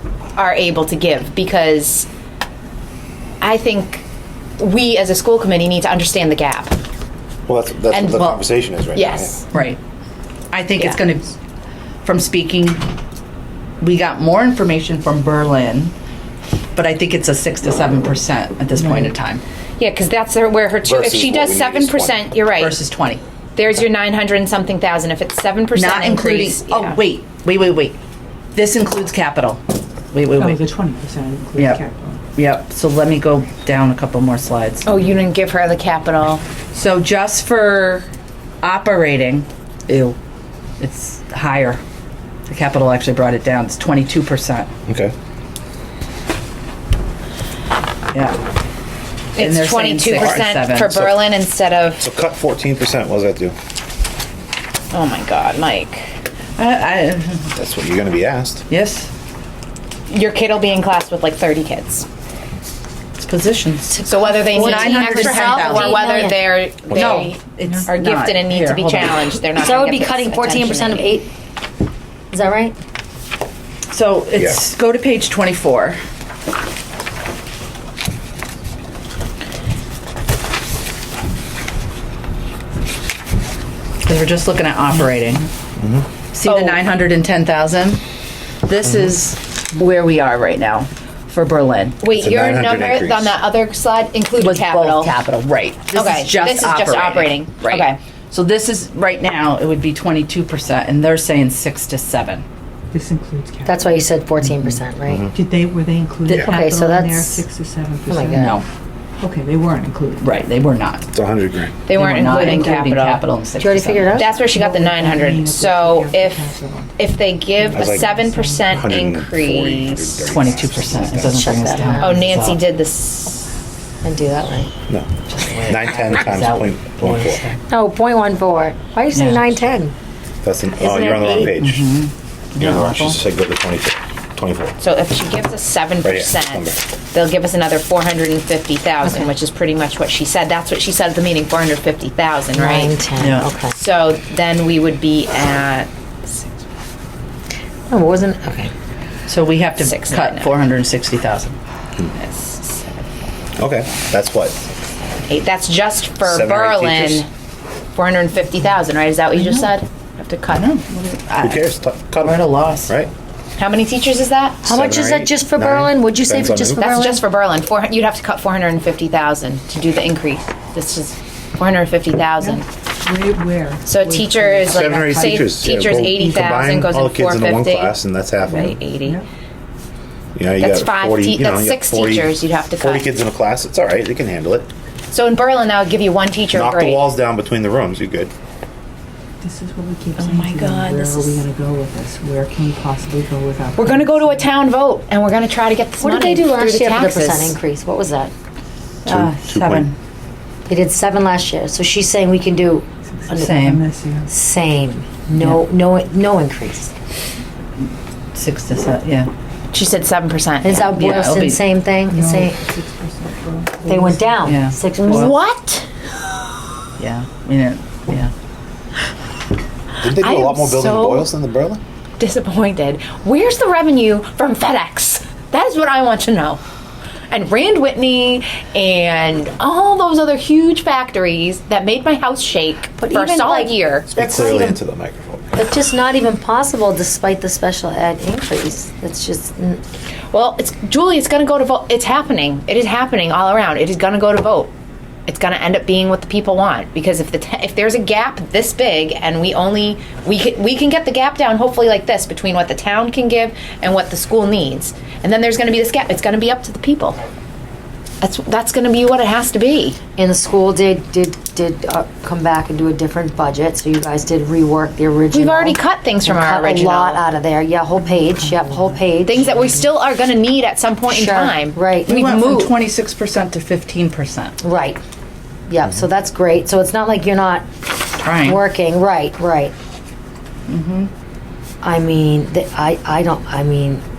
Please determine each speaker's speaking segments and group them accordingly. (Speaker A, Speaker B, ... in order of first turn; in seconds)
Speaker A: 0.3-2.1, 3.4-4.0, 4.6-6.8, 7.9-8.4, 8.9-9.4, 19.8-22.8, 23.6-27.0, 34.8-36.4, 49.3-52.0, 54.9-56.1, 60.1-62.0, 64.0-71.2, 86.4-86.8, 92.0-95.1, 95.9-98.0, 111.8-113.2, 114.2-120.3, 122.0-123.5, 134.8-143.0, 143.7-146.5, 149.8-150.5, 152.1-153.1, 155.3-157.3, 157.9-160.7, 163.6-164.6, 166.8-172.7, 173.8-179.2, 180.6-183.1, 185.1-187.1, 190.2-191.4, 193.8-197.5, 209.7-210.8, 215.0-215.9, 220.1-221.3, 222.2-226.6, 227.3-234.1, 240.3-244.7, 245.3-257.2, 258.2-260.0, 265.3-267.2, 269.2-272.7
Speaker B: 7.5-9.3, 20.8-22.2, 44.9-45.1, 50.2-51.1, 52.0-53.5, 57.5-58.6, 66.9-67.3, 85.8-86.0, 92.1-93.4, 111.1-111.8, 117.7-118.2, 118.7-121.5, 125.6-127.4, 130.4-131.9, 132.6-134.8, 136.0-136.8, 153.6-154.6, 156.2-157.2, 161.4-163.1, 164.7-166.9, 174.7-178.7, 180.3-184.7, 186.5-188.3, 199.1-199.9, 220.0-221.8, 234.1-235.5
Speaker C: 9.5-9.8, 10.5-11.3, 12.0-12.8, 13.8-15.9, 16.7-19.4, 22.5-23.2, 25.7-28.0, 28.5-30.6, 32.3-34.9, 36.7-38.1, 38.6-40.1, 40.8-41.8, 42.5-44.7, 48.1-48.4, 49.4-51.0, 56.6-57.5, 58.7-59.1, 63.1-66.3, 66.9-69.2, 73.9-76.0, 84.0-85.5, 86.3-88.0, 88.7-92.0, 94.4-102.4, 108.3-108.6, 110.2-111.1, 111.9-114.2, 120.3-122.6, 125.3-127.6, 129.1-129.6, 130.8-133.2, 143.2-143.5, 149.3-151.6, 160.5-162.9, 199.1-199.9, 203.3-203.8, 208.3-209.3, 210.7-211.6, 214.4-215.4, 217.0-218.3, 272.1-274.5, 278.2-278.6, 280.7-281.1
Speaker D: 18.8-19.1, 30.3-32.2, 102.9-104.0, 105.3-108.5, 109.2-110.3, 114.3-118.9, 172.4-176.9, 178.7-179.2, 189.4-194.6, 203.1-204.3, 212.1-214.5
Speaker E: 63.9-66.4, 69.5-71.3, 72.3-72.8, 103.6-105.3, 106.3-107.4, 108.1-108.6, 113.6-114.3, 121.2-122.3, 124.0-124.7, 127.7-129.9, 142.5-143.7, 147.9-148.7, 164.6-167.2, 196.0-198.3, 200.7-203.6, 204.3-206.9, 210.6-212.6, 213.8-215.4, 233.0-234.8, 235.5-239.8, 260.2-269.8, 271.1-272.2, 274.6-275.0, 275.7-277.6, 278.4-279.7, 281.8-284.0